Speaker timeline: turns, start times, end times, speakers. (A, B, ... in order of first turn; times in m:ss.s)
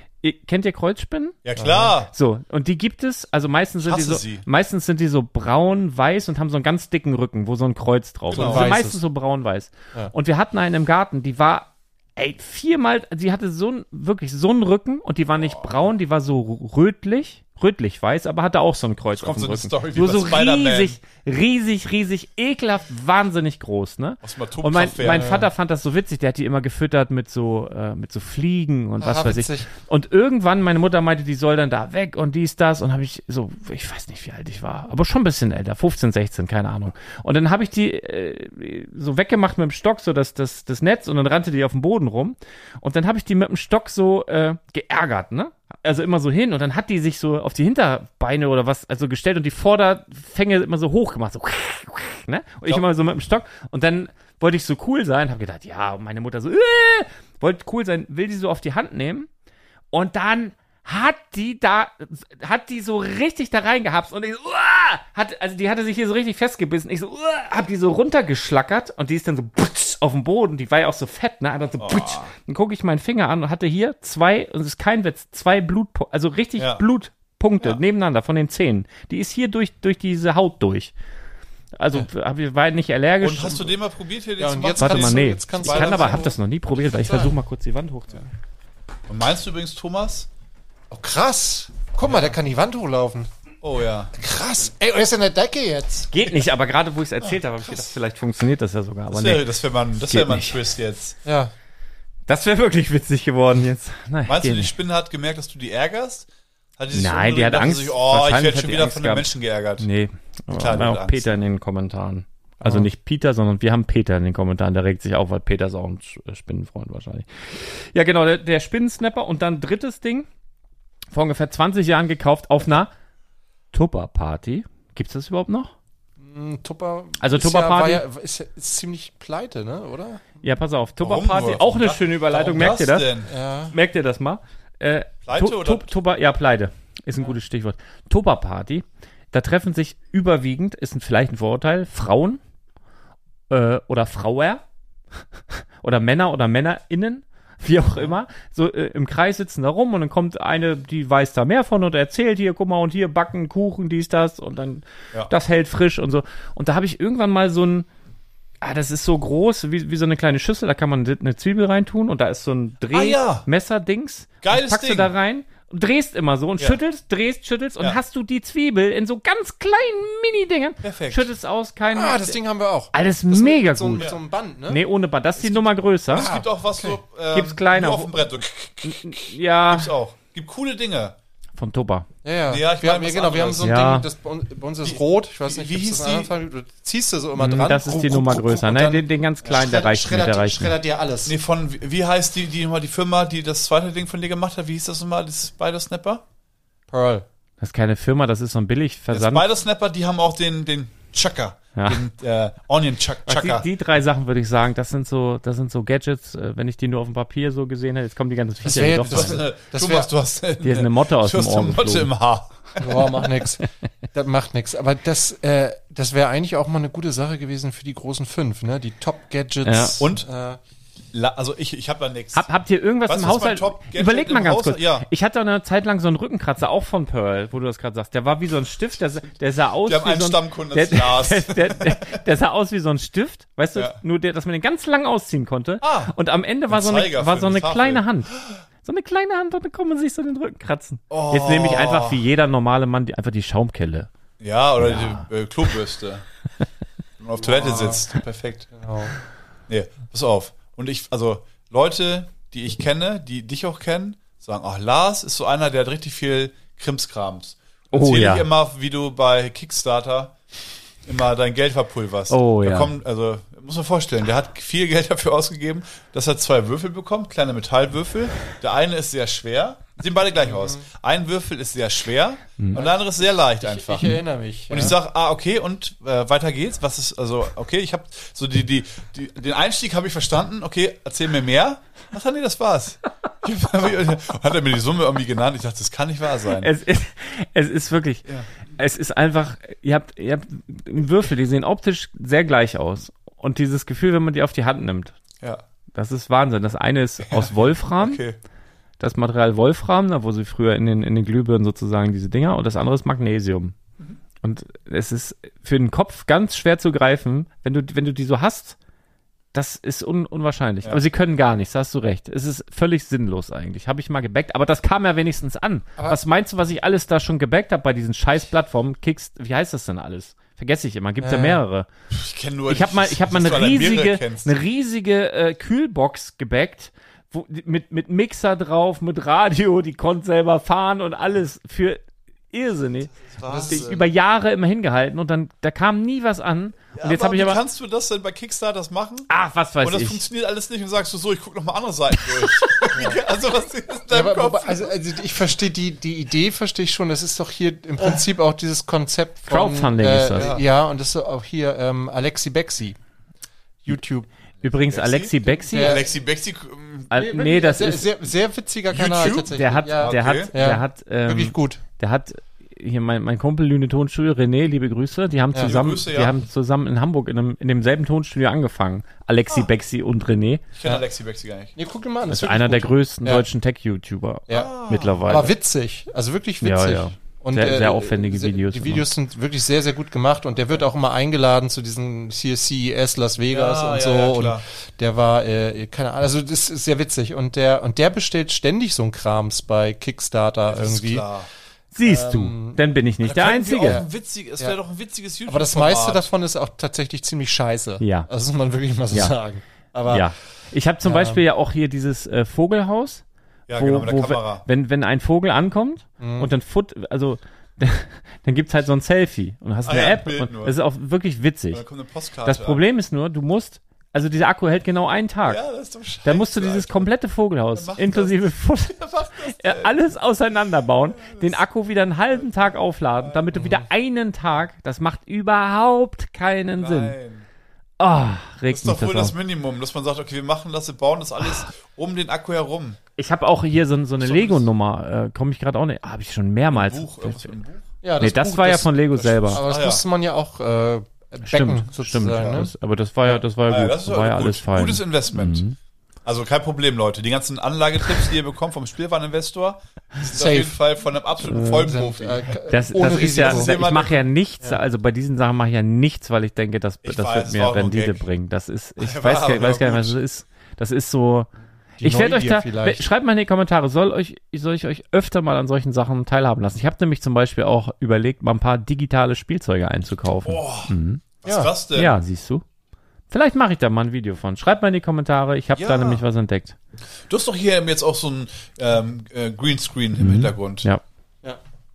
0:00.2-0:01.4 A
0:01.4-0:02.1 B
0:01.6-0:01.9 C
0:02.1-0:59.3 A
0:03.8-0:04.4 B
0:08.3-0:08.7 B
0:08.3-0:09.0 C
0:15.4-0:15.7 B
0:19.1-0:21.0 B
0:24.2-0:25.4 B
0:25.1-0:25.5 C
0:29.0-0:29.7 C
0:59.9-1:20.9 A
1:11.8-1:12.3 B
1:16.6-1:16.8 B
1:21.8-1:23.7 A
1:23.2-1:26.3 B
1:24.4-1:26.4 C
1:24.8-1:28.3 A
1:26.9-1:27.3 C
1:29.1-1:30.3 B
1:30.9-1:33.3 C
1:32.0-1:32.3 B
1:33.6-1:34.1 B
1:34.1-1:36.1 C
1:36.1-1:39.4 A
1:39.1-1:41.2 B
1:40.1-1:40.6 A
1:41.2-1:41.5 C
1:42.3-1:44.7 A
1:44.2-1:46.3 B
1:46.8-1:49.8 B
1:46.9-2:00.3 A
1:50.5-1:51.4 B
1:52.6-1:52.9 C
2:01.1-2:02.9 A
2:03.7-2:05.7 A
2:06.2-2:10.3 C
2:07.2-2:08.0 A
2:10.4-2:13.1 A
2:11.0-2:13.3 B
2:13.2-2:13.7 C
2:13.7-2:22.4 A
2:15.2-2:15.9 B
2:23.5-2:24.6 A
2:25.8-2:37.9 A
2:38.6-2:52.4 A
2:42.9-2:43.4 B
2:44.4-2:45.1 B
2:50.8-2:51.3 B
2:51.9-2:54.8 C
2:52.9-2:54.1 A
2:54.7-2:56.3 A
2:55.5-3:01.1 B
2:56.1-2:57.0 C
2:57.3-2:58.3 A
2:58.8-2:59.9 A
3:01.6-3:02.1 A
3:02.2-3:11.4 C
3:02.5-3:03.8 B
3:03.6-3:04.1 A
3:04.8-3:06.3 B
3:07.4-3:10.8 A
3:11.2-3:16.2 B
3:16.9-3:17.2 C
3:17.6-3:19.4 A
3:19.1-3:23.6 B
3:21.8-3:22.0 A
3:23.2-3:29.4 A
3:28.6-3:30.1 C
3:29.0-3:33.1 B
3:30.6-3:32.1 A
3:32.8-3:40.6 C
3:39.6-3:40.0 A
3:40.0-3:40.3 B
3:41.1-3:42.5 B
3:42.3-3:58.3 A
3:43.1-3:45.1 B
3:49.8-3:52.2 B
3:55.8-3:56.1 B
3:56.7-3:58.6 B
3:58.8-4:04.1 A
4:01.1-4:02.2 B
4:04.4-4:06.2 B
4:04.8-4:05.2 A
4:07.2-4:08.7 B
4:07.4-4:08.0 C
4:08.7-4:09.1 C
4:09.7-4:20.3 B
4:17.9-4:18.5 A
4:21.0-4:46.7 B
4:22.3-4:22.9 A
4:30.4-4:30.8 C
4:32.7-4:35.0 C
4:46.6-4:55.1 A
4:55.9-4:58.2 A
4:57.3-4:58.4 B
4:59.0-5:03.8 A
5:04.4-5:08.8 A
5:09.5-5:21.9 A
5:21.2-5:21.6 C
5:22.1-5:24.6 B
5:22.7-5:37.6 A
5:33.3-5:34.0 B
5:33.4-5:34.0 C
5:36.9-5:39.3 B
5:39.3-5:40.2 A
5:39.8-5:45.0 B
5:42.4-5:42.9 A
5:42.9-5:43.2 C
5:44.1-5:53.0 C
5:49.5-5:50.5 A
5:50.3-5:50.6 B
5:53.8-5:54.3 C
5:54.6-5:56.0 A
5:54.6-5:57.1 B
5:55.7-5:56.1 C
5:57.1-5:58.1 A
5:57.1-6:01.8 C
5:58.9-6:00.5 B
5:59.2-6:10.6 A
6:05.6-6:06.4 B
6:10.7-6:11.8 B
6:11.8-6:13.4 C
6:12.3-6:15.5 A
6:14.5-6:15.3 B
6:15.2-6:31.3 C
6:16.6-6:19.0 A
6:23.5-6:24.6 B
6:30.7-6:31.5 B
6:31.9-6:34.0 A
6:32.0-6:32.8 C
6:33.2-6:36.3 B
6:35.5-6:40.3 C
6:38.0-6:38.3 A
6:40.1-6:51.8 A
6:41.0-6:41.4 C
6:43.7-6:44.6 B
6:46.2-6:46.5 C
6:49.8-6:50.8 B
6:51.7-6:52.8 B
6:52.4-6:55.6 A
6:55.4-6:57.1 B
6:56.2-7:07.2 A
6:57.7-6:59.9 B
7:01.1-7:01.6 B
7:03.2-7:03.5 B
7:06.8-7:07.4 B
7:08.0-7:09.3 A
7:08.7-7:13.0 B
7:13.2-7:17.6 A
7:14.2-7:14.7 B
7:16.7-7:17.9 B
7:18.0-7:22.7 C
7:18.2-7:19.6 A
7:19.3-7:20.0 B
7:21.4-7:25.8 A
7:23.7-7:25.6 B
7:26.2-7:34.2 B
7:30.2-7:30.8 C
7:31.4-7:31.9 A
7:31.4-7:33.8 C
7:32.7-7:41.5 A
7:37.0-7:38.2 B
7:39.0-7:40.2 B
7:42.0-7:43.0 C
7:42.0-7:51.2 A
7:50.4-7:50.9 B
7:51.4-7:52.2 B
7:51.4-7:51.7 C
7:51.9-7:52.6 A
7:53.3-7:56.8 A
7:55.8-7:56.2 B
7:57.3-8:00.8 B
8:00.2-8:01.0 A